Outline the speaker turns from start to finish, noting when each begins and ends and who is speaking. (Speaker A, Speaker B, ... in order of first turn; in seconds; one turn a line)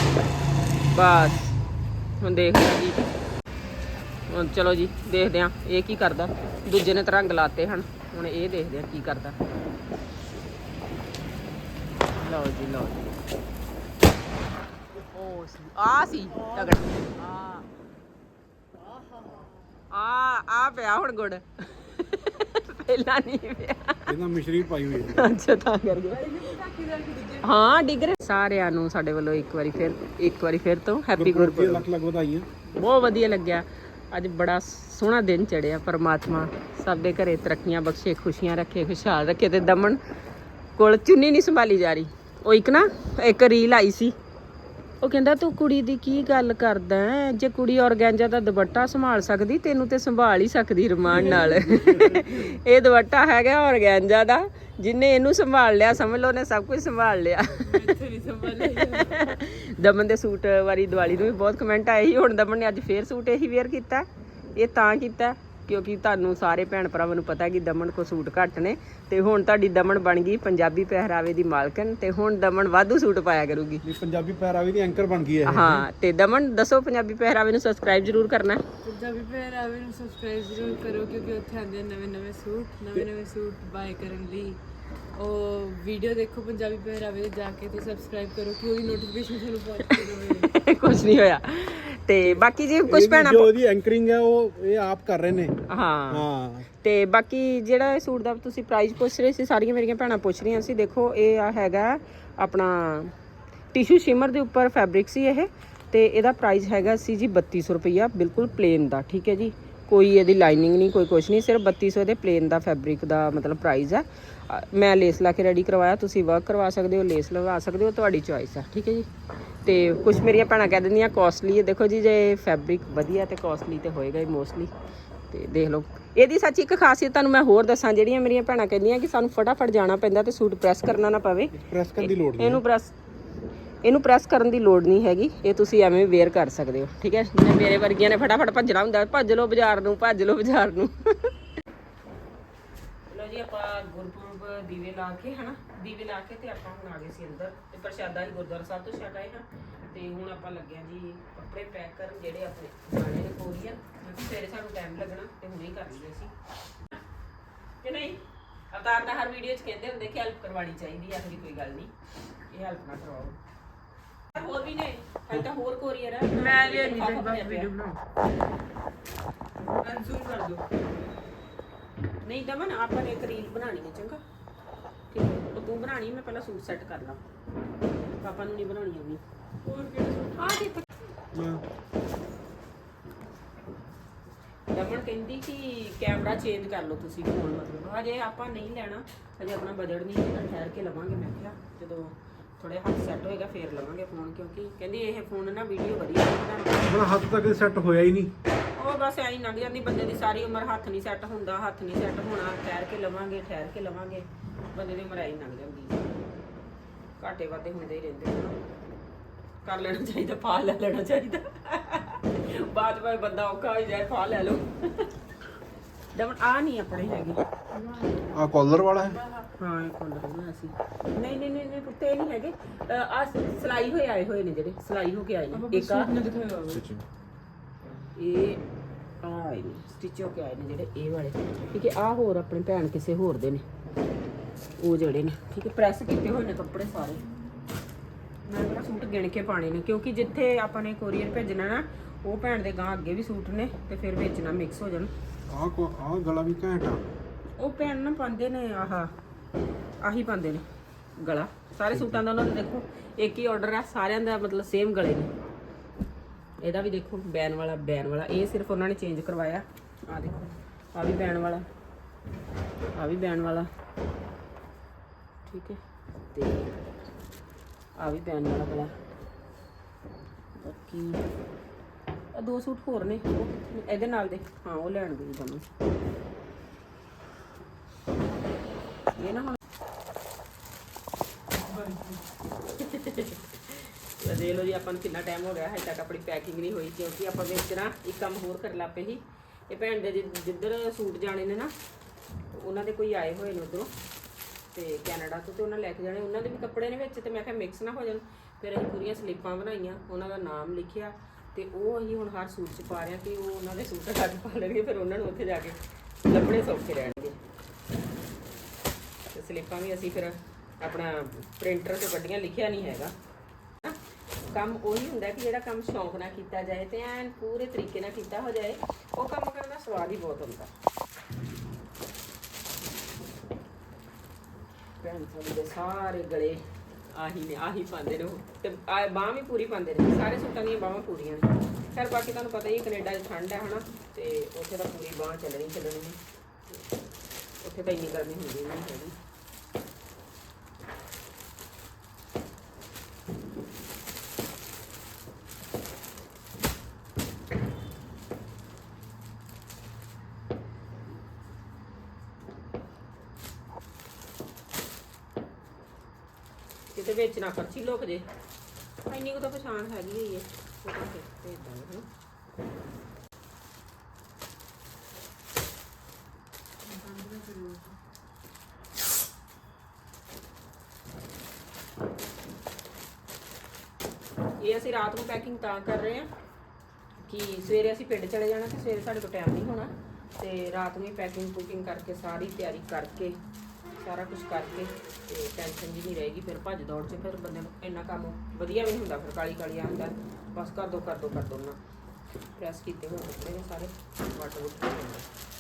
Speaker A: 0.9-1.6
Speaker A: 2.2-3.0
Speaker A: 4.3-9.4
Speaker A: 12.2-13.0
Speaker A: 15.0-17.6
Speaker B: 18.9-19.5
Speaker A: 19.9-24.1
Speaker C: 24.1-25.3
Speaker A: 25.0-26.5
Speaker B: 26.1-27.5
Speaker A: 27.4-31.9
Speaker C: 31.2-32.5
Speaker A: 32.7-40.0
Speaker A: 40.8-44.1
Speaker A: 45.0-73.8
Speaker C: 51.1-52.5
Speaker B: 57.6-59.2
Speaker C: 73.8-75.9
Speaker A: 75.5-78.6
Speaker B: 78.8-84.6
Speaker B: 85.2-90.5
Speaker A: 89.8-93.5
Speaker C: 92.2-95.6
Speaker A: 95.7-96.3
Speaker C: 96.1-96.7
Speaker A: 96.8-103.1
Speaker A: 103.7-119.1
Speaker A: 119.7-124.7
Speaker A: 125.3-132.9
Speaker C: 131.5-132.6
Speaker A: 133.8-141.3
Speaker A: 143.1-156.3
Speaker A: 157.8-161.9
Speaker A: 162.5-163.4
Speaker A: 164.3-167.7
Speaker B: 166.3-168.0
Speaker B: 169.7-170.6
Speaker A: 172.2-174.2
Speaker A: 175.1-177.2
Speaker A: 178.2-179.2
Speaker B: 179.6-180.6
Speaker A: 180.4-180.9
Speaker C: 181.3-181.6
Speaker A: 184.7-196.9
Speaker C: 196.8-198.3
Speaker A: 198.8-206.1
Speaker A: 207.2-208.6
Speaker A: 209.7-215.1
Speaker A: 216.1-217.4
Speaker B: 217.7-218.4
Speaker C: 218.3-219.2
Speaker B: 219.1-219.5
Speaker A: 219.6-226.1
Speaker B: 225.5-226.9
Speaker C: 226.8-227.0
Speaker A: 228.2-228.6
Speaker A: 229.2-233.6
Speaker A: 234.8-237.2
Speaker A: 238.5-245.1
Speaker C: 245.5-247.0
Speaker A: 247.6-249.1
Speaker A: 250.0-250.6
Speaker A: 251.2-255.3
Speaker C: 251.9-252.2
Speaker A: 256.6-261.7
Speaker A: 262.9-263.7
Speaker A: 265.5-265.8
Speaker A: 266.3-266.7
Speaker A: 268.0-268.9
Speaker A: 270.6-271.2
Speaker A: 272.3-275.7
Speaker A: 279.1-279.6
Speaker B: 281.6-282.2
Speaker A: 282.8-291.7
Speaker A: 292.5-293.9
Speaker A: 294.7-307.4
Speaker A: 309.3-313.1
Speaker A: 313.8-320.7
Speaker A: 325.0-336.8
Speaker A: 337.6-339.2
Speaker A: 356.9-358.3
Speaker A: 359.1-362.1
Speaker B: 366.9-368.0
Speaker A: 374.6-376.3
Speaker A: 377.3-383.4
Speaker A: 384.0-391.8
Speaker A: 392.6-395.3